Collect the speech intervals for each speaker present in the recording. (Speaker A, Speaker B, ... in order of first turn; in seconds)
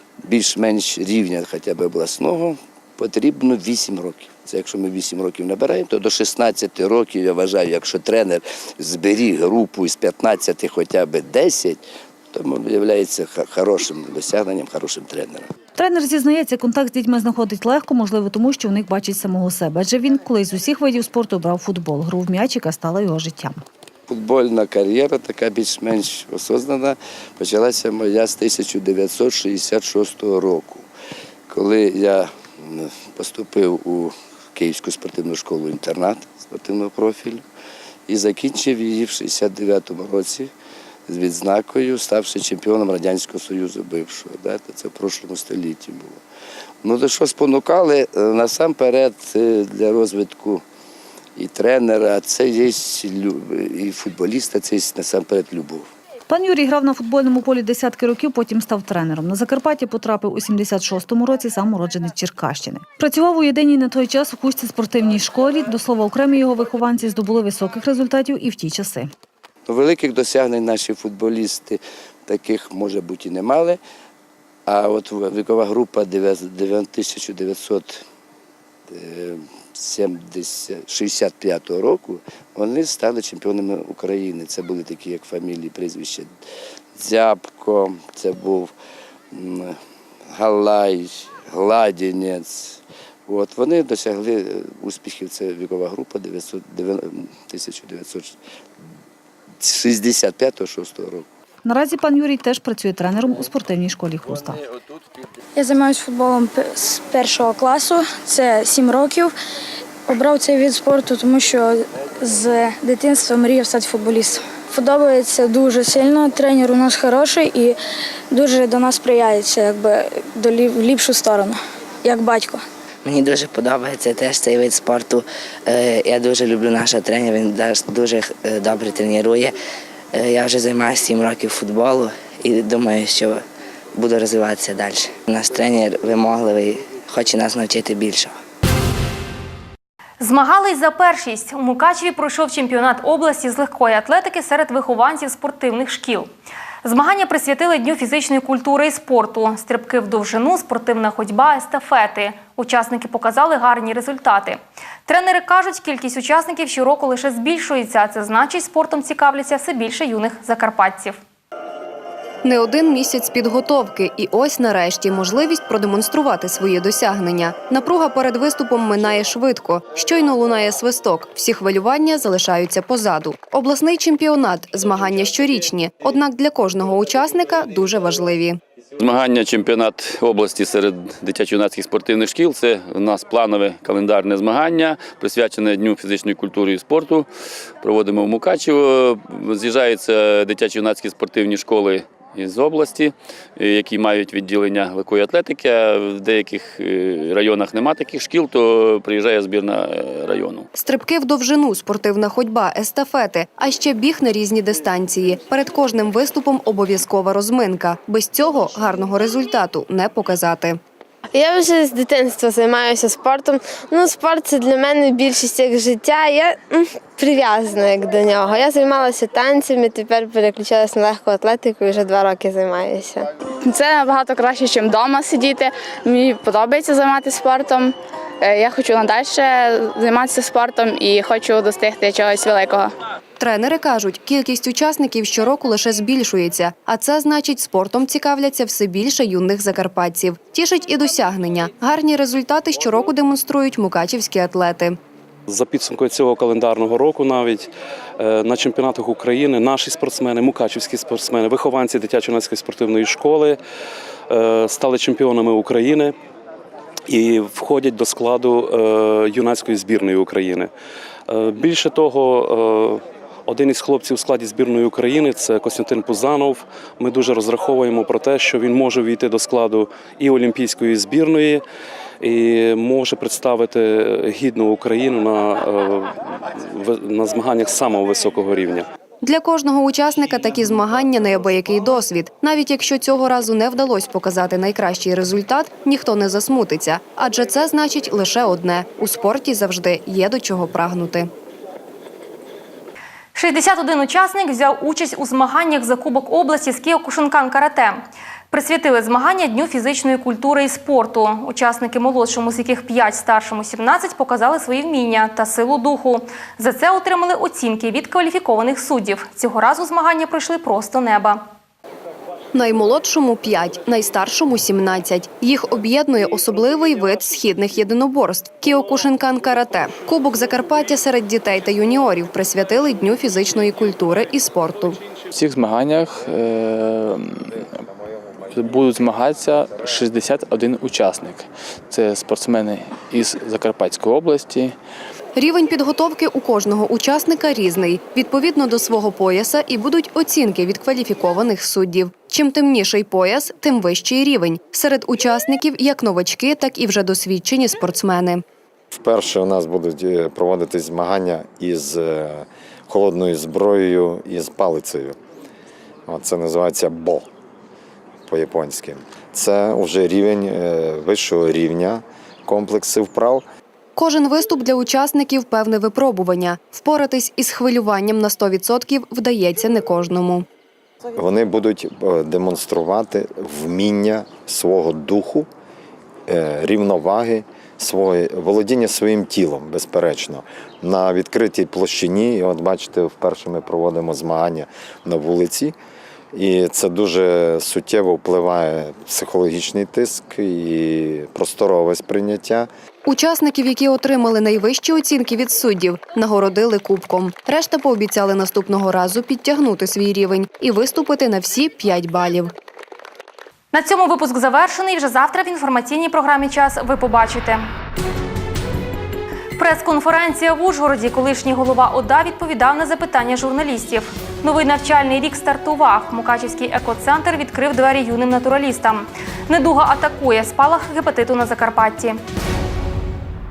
Speaker A: 0.2-15.5, 24.1-30.9, 31.5-37.4, 38.1-40.5, 41.1-46.2, 46.8-50.6, 51.4-55.9, 69.7-73.8, 74.7-78.0, 78.9-86.3, 87.0-88.7, 89.3-89.8, 90.3-98.4, 99.6-101.3
Speaker B: 15.8-23.6, 56.3-69.1, 101.7-104.6
Speaker C: 105.6-109.3, 110.1-117.8, 118.3-122.6
Speaker D: 123.0-129.5, 130.1-133.4, 134.0-138.3
Speaker E: 140.2-146.3, 146.8-161.2, 293.4-311.4, 403.7-407.7, 409.6-422.2
Speaker F: 162.4-178.6, 200.8-210.8, 233.4-245.0, 279.2-291.3, 312.5-325.0, 335.4-348.4, 364.0-370.5, 393.1-402.5
Speaker G: 179.0-187.3, 187.8-200.7
Speaker H: 211.3-223.3
Speaker I: 223.7-232.9
Speaker J: 245.5-253.6, 254.3-256.2, 257.1-260.7, 261.3-271.6, 272.2-278.9
Speaker K: 325.3-327.7, 328.5-334.8
Speaker L: 348.9-355.2, 356.1-357.3, 358.3-363.4, 371.1-375.5, 376.3-385.8, 386.3-392.7